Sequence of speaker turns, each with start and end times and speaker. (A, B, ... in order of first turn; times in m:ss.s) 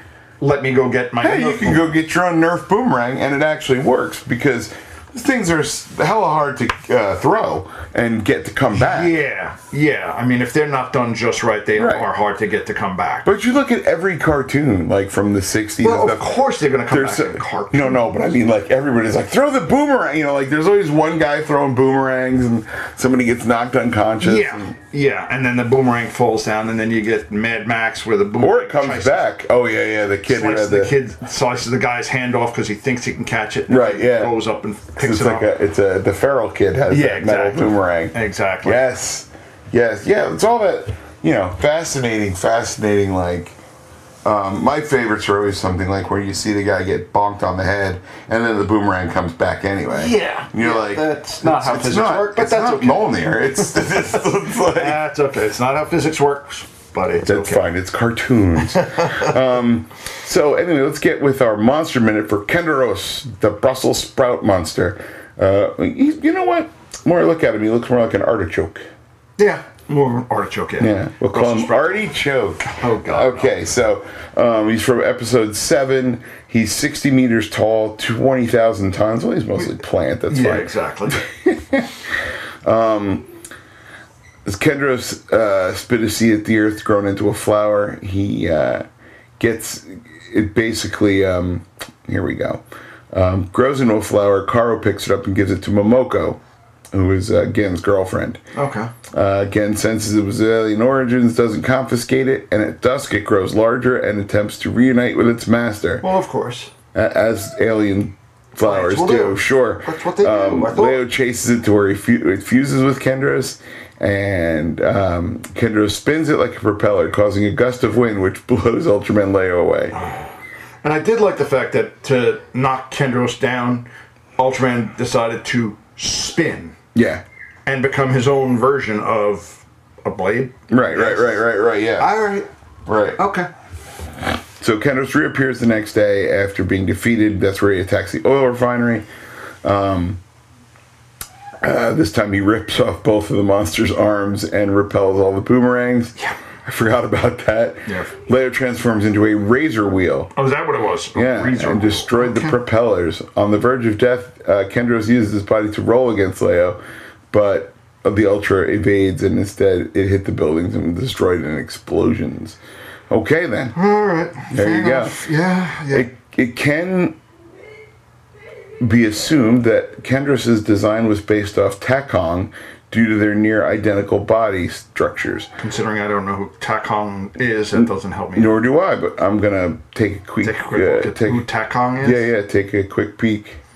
0:00.4-0:01.9 A
0:01.2-0:09.1 B
0:08.7-0:13.3 A
0:11.7-0:12.1 B
0:13.2-0:24.7 B
0:15.8-0:18.1 A
0:24.2-0:29.3 A
0:28.4-0:30.9 B
0:30.3-0:35.5 A
0:33.7-0:34.4 B
0:35.0-0:43.6 B
0:36.9-0:38.8 A
0:44.2-0:55.0 B
0:49.9-0:53.8 A
0:54.5-0:57.7 A
0:57.2-1:08.9 B
0:58.7-0:59.3 A
1:09.4-1:13.6 A
1:10.8-1:22.0 B
1:20.3-1:21.2 A
1:22.6-1:23.3 B
1:24.4-1:28.9 B
1:29.4-1:36.4 B
1:36.9-1:38.4 B
1:38.5-1:38.9 A
1:39.1-1:46.0 B
1:46.0-1:46.7 A
1:46.9-1:59.9 B
1:48.6-1:51.0 A
1:59.9-2:00.3 A
2:00.8-2:06.8 A
2:06.9-2:07.2 B
2:07.6-2:11.4 A
2:10.7-2:12.2 B
2:12.0-2:12.5 A
2:12.8-2:13.2 B
2:13.2-2:13.5 A
2:14.6-2:19.0 B
2:19.6-2:20.2 B
2:21.6-2:30.3 B
2:30.3-2:32.6 A
2:31.1-2:36.8 B
2:37.3-2:42.6 B
2:43.1-2:43.8 B
2:43.7-2:46.1 A
2:44.5-2:45.2 B
2:45.9-2:47.2 B
2:48.8-2:55.5 B
2:55.6-2:58.5 A
2:57.8-3:01.4 B
3:00.4-3:02.3 A
3:02.0-3:03.6 B